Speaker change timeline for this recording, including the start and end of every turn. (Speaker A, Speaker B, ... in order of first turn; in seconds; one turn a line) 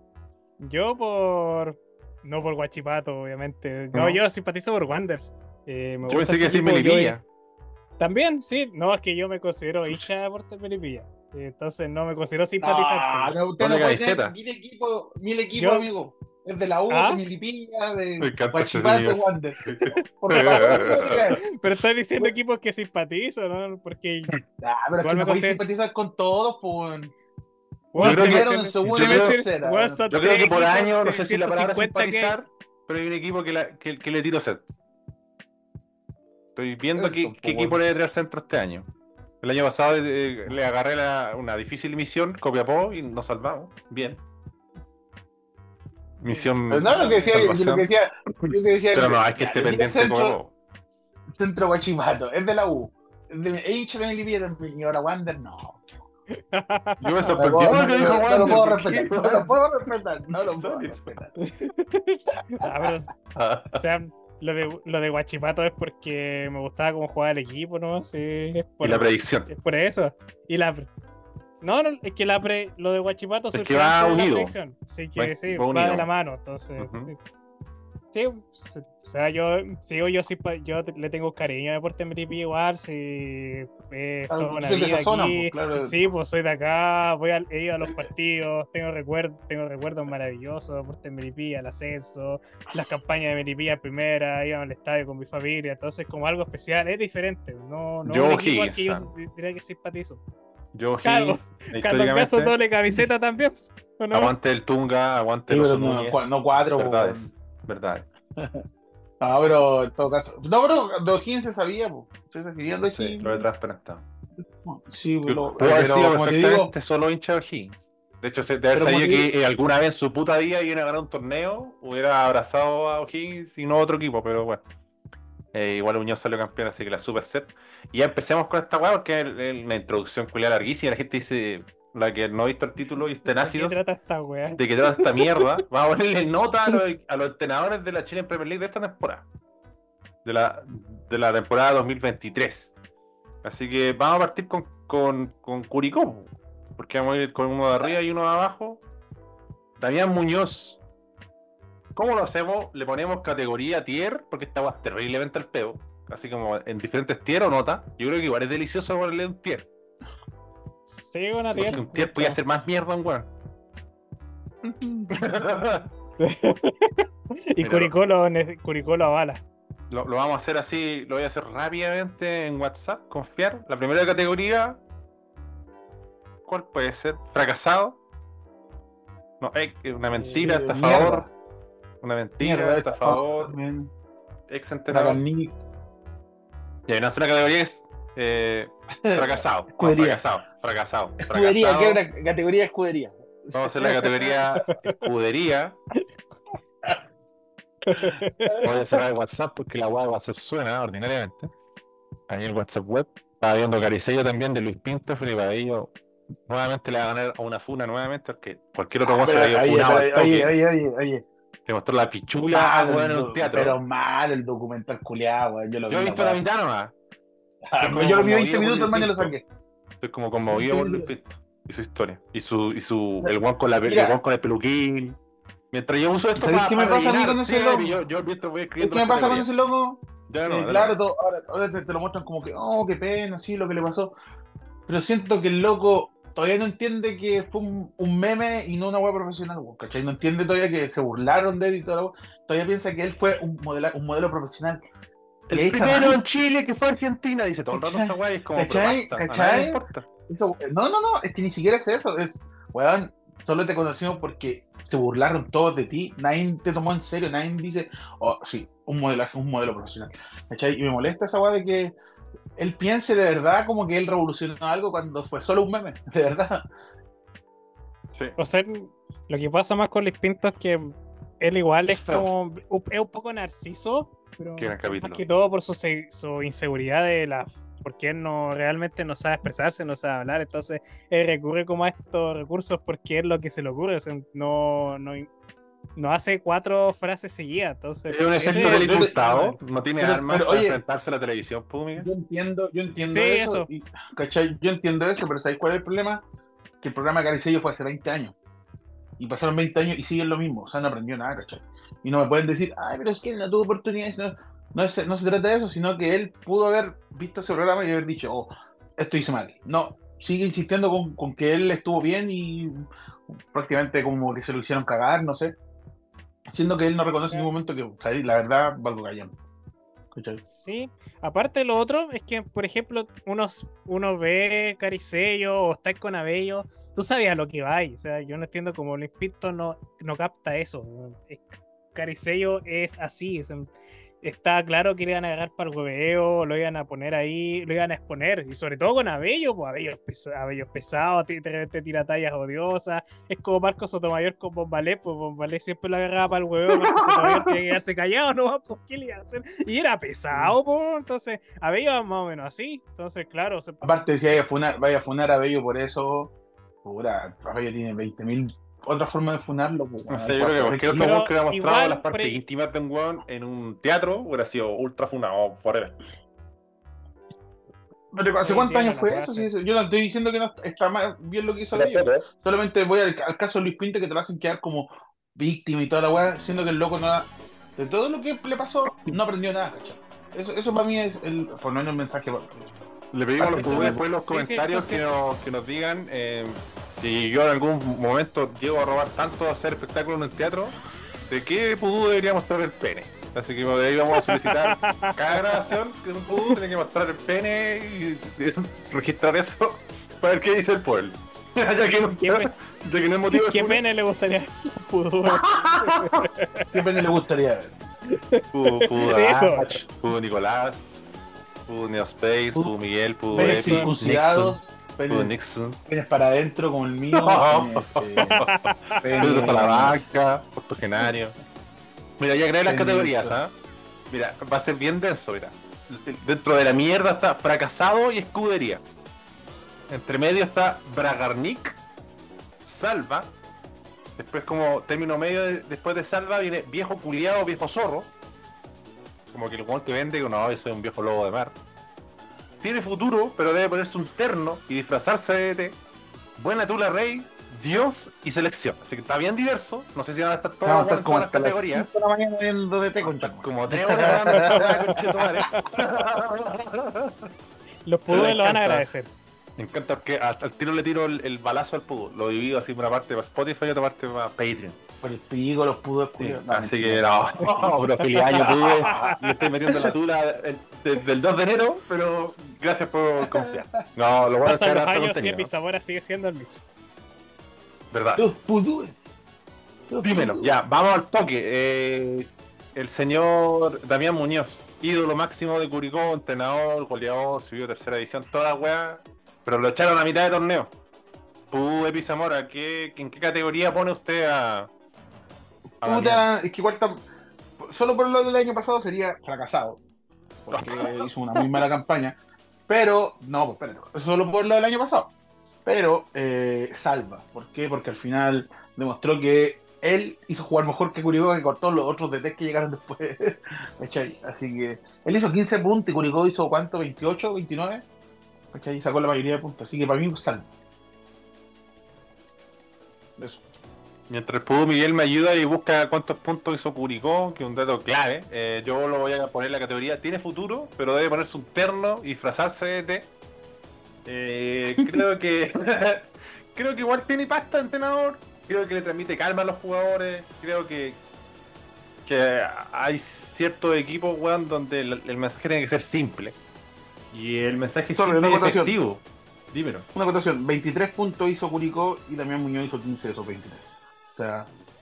Speaker A: 0.6-7.2
Speaker B: 3.9-4.2
Speaker B: 6.1-7.2
Speaker A: 8.0-13.4
Speaker C: 12.6-21.4
Speaker B: 13.6-14.3
Speaker A: 15.6-15.9
Speaker A: 16.9-17.2
Speaker B: 18.2-21.4
Speaker A: 20.3-24.3
Speaker C: 24.6-27.1
Speaker A: 25.0-25.6
Speaker A: 27.9-32.4
Speaker C: 27.9-30.1
Speaker B: 28.0-29.4
Speaker B: 30.1-34.6
Speaker B: 36.5-38.9
Speaker C: 36.9-37.8
Speaker B: 39.4-44.2
Speaker A: 46.2-47.5
Speaker B: 46.2-47.9
Speaker C: 46.7-50.4
Speaker B: 48.4-50.5
Speaker C: 51.3-55.8
Speaker A: 56.3-57.4
Speaker B: 57.0-59.5
Speaker C: 57.4-61.3
Speaker B: 60.5-61.1
Speaker A: 61.4-63.1
Speaker B: 63.3-63.8
Speaker A: 63.8-70.9
Speaker B: 68.8-69.5
Speaker A: 71.6-77.2
Speaker B: 73.5-74.5
Speaker B: 75.2-76.1
Speaker B: 76.8-77.1
Speaker A: 78.1-100.2
Speaker C: 84.3-86.0
Speaker B: 98.0-99.1
Speaker B: 100.7-102.5
Speaker A: 101.0-104.3
Speaker B: 104.1-108.0
Speaker C: 105.5-107.3
Speaker C: 108.4-108.6
Speaker C: 109.2-113.4
Speaker B: 112.9-114.0
Speaker C: 114.6-116.7
Speaker B: 115.2-124.6
Speaker C: 118.7-119.3
Speaker B: 125.5-133.8
Speaker A: 133.3-135.4
Speaker B: 134.5-139.2
Speaker B: 140.2-142.7
Speaker B: 143.4-148.8
Speaker B: 149.8-150.8
Speaker B: 151.9-159.7
Speaker A: 160.9-162.4
Speaker B: 161.5-163.3
Speaker C: 164.6-165.2
Speaker B: 165.1-165.9
Speaker A: 166.2-169.4
Speaker B: 167.6-167.9
Speaker B: 169.9-174.8
Speaker B: 176.4-178.0
Speaker B: 179.4-181.3
Speaker C: 180.1-181.3
Speaker B: 182.0-183.5
Speaker C: 182.4-183.9
Speaker B: 184.5-185.2
Speaker C: 184.9-185.6
Speaker B: 186.9-192.0
Speaker C: 189.0-190.2
Speaker C: 191.2-194.4
Speaker B: 193.5-195.8
Speaker A: 194.7-195.0
Speaker A: 197.8-198.7
Speaker B: 198.6-201.5
Speaker B: 202.3-205.9
Speaker B: 206.5-210.5
Speaker C: 209.0-211.2
Speaker B: 211.7-213.8
Speaker C: 212.5-216.4
Speaker B: 215.9-216.9
Speaker C: 217.6-219.4
Speaker B: 217.8-219.3
Speaker B: 220.0-225.2
Speaker C: 220.5-221.1
Speaker C: 223.8-224.2
Speaker B: 225.7-229.5
Speaker C: 226.3-228.0
Speaker C: 228.8-234.1
Speaker B: 230.3-230.9
Speaker C: 234.9-244.8
Speaker B: 245.5-250.1
Speaker C: 245.5-246.2
Speaker C: 247.7-261.9
Speaker C: 262.6-266.7
Speaker A: 268.4-285.3
Speaker C: 271.9-272.3
Speaker B: 274.6-275.2
Speaker A: 285.9-289.6
Speaker B: 288.1-292.1
Speaker C: 288.4-289.2
Speaker C: 290.0-290.8
Speaker C: 292.0-296.2
Speaker A: 293.1-293.7
Speaker C: 296.8-298.4
Speaker C: 299.2-315.5
Speaker C: 316.5-319.4
Speaker C: 320.1-320.4
Speaker A: 320.4-333.7
Speaker A: 334.2-353.9
Speaker B: 346.9-347.4
Speaker C: 353.8-361.2
Speaker B: 360.1-366.0
Speaker A: 360.9-362.4
Speaker C: 368.1-382.7
Speaker A: 368.4-369.5
Speaker B: 371.7-372.2
Speaker B: 383.1-390.8
Speaker C: 383.4-384.0
Speaker A: 383.5-385.0
Speaker B: 391.3-403.8
Speaker A: 394.2-395.6
Speaker A: 402.2-402.5
Speaker A: 403.3-406.8
Speaker B: 405.3-406.2
Speaker C: 406.7-407.8
Speaker A: 408.1-409.8
Speaker B: 408.5-410.9
Speaker B: 411.7-415.8
Speaker C: 413.3-418.4
Speaker A: 413.3-413.9
Speaker B: 417.1-421.4
Speaker A: 418.2-419.5
Speaker C: 419.0-420.0
Speaker B: 422.2-423.5
Speaker C: 422.6-423.4
Speaker B: 424.1-428.8
Speaker B: 429.9-431.8
Speaker B: 432.6-433.3
Speaker B: 434.2-438.1
Speaker B: 439.3-441.6
Speaker B: 442.6-445.8
Speaker B: 446.4-451.9
Speaker C: 450.6-455.5
Speaker B: 453.0-457.3
Speaker A: 454.3-455.6
Speaker A: 457.8-459.1
Speaker B: 458.1-458.9
Speaker B: 459.6-464.8
Speaker C: 465.0-467.8
Speaker B: 466.2-475.5
Speaker A: 467.4-469.2
Speaker C: 468.3-469.2
Speaker C: 473.2-473.6
Speaker A: 474.4-476.6
Speaker B: 477.9-478.3
Speaker C: 478.1-479.1
Speaker C: 479.9-480.7
Speaker B: 480.0-490.7
Speaker B: 491.5-494.7
Speaker B: 495.8-496.2
Speaker C: 495.8-497.0
Speaker C: 497.6-499.8
Speaker C: 500.4-505.1
Speaker B: 500.5-501.6
Speaker C: 505.6-517.8
Speaker C: 518.5-520.5
Speaker C: 523.2-523.5
Speaker B: 524.1-533.1
Speaker B: 534.0-541.0
Speaker B: 542.0-546.4
Speaker B: 547.1-549.9
Speaker C: 547.9-548.7
Speaker C: 549.9-553.6
Speaker C: 554.1-554.5